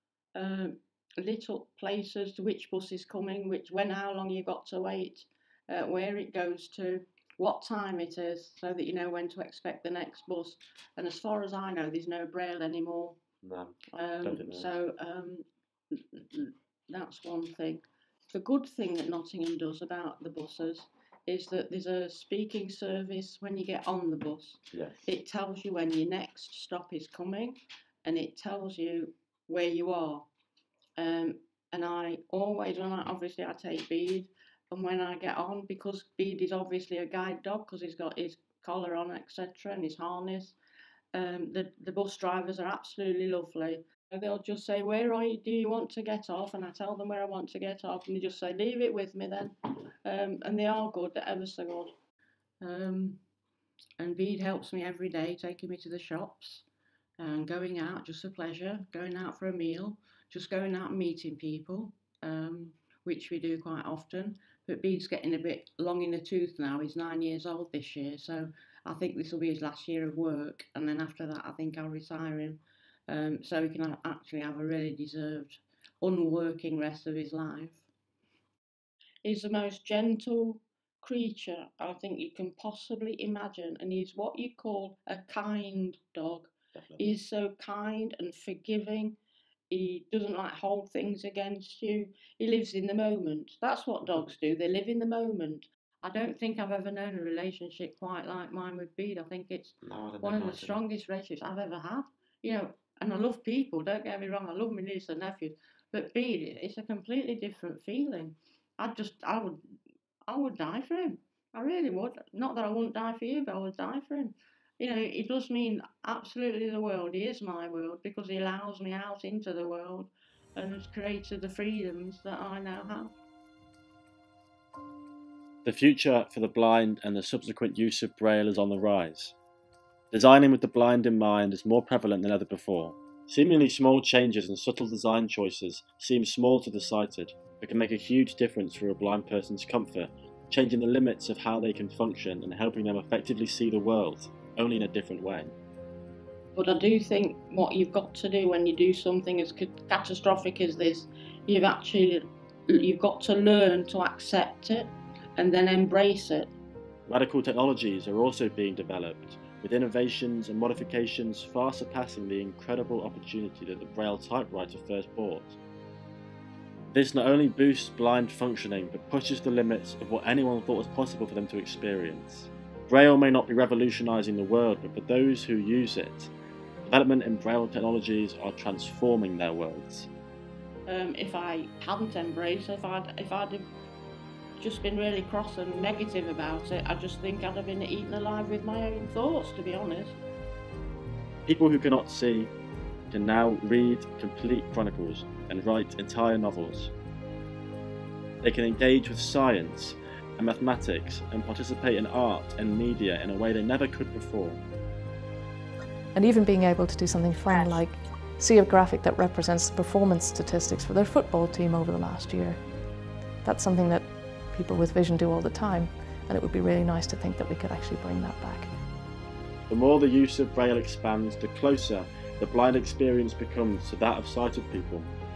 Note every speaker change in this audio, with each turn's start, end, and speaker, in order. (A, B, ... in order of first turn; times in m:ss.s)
0:00.3-0:13.2 A
0:13.4-0:14.7 B
0:13.9-0:30.3 A
0:24.7-0:25.0 B
0:31.0-0:40.6 A
0:41.1-0:51.9 A
0:52.6-0:53.2 A
0:54.0-0:56.6 A
0:57.2-1:17.8 A
1:19.2-1:29.2 A
1:26.7-1:27.0 B
1:29.7-1:49.6 A
1:39.8-1:40.8 B
1:50.3-2:03.1 A
2:05.6-2:09.3 B
2:10.1-2:25.5 B
2:26.5-2:36.5 A
2:37.1-2:45.6 B
2:46.9-2:56.3 B
2:56.9-3:00.1 B
3:00.9-3:03.6 A
3:04.6-3:10.2 A
3:11.4-3:12.5 B
3:13.1-3:16.9 B
3:18.4-3:24.6 B
3:26.1-3:32.7 C
3:33.4-3:38.8 C
3:39.7-3:45.1 B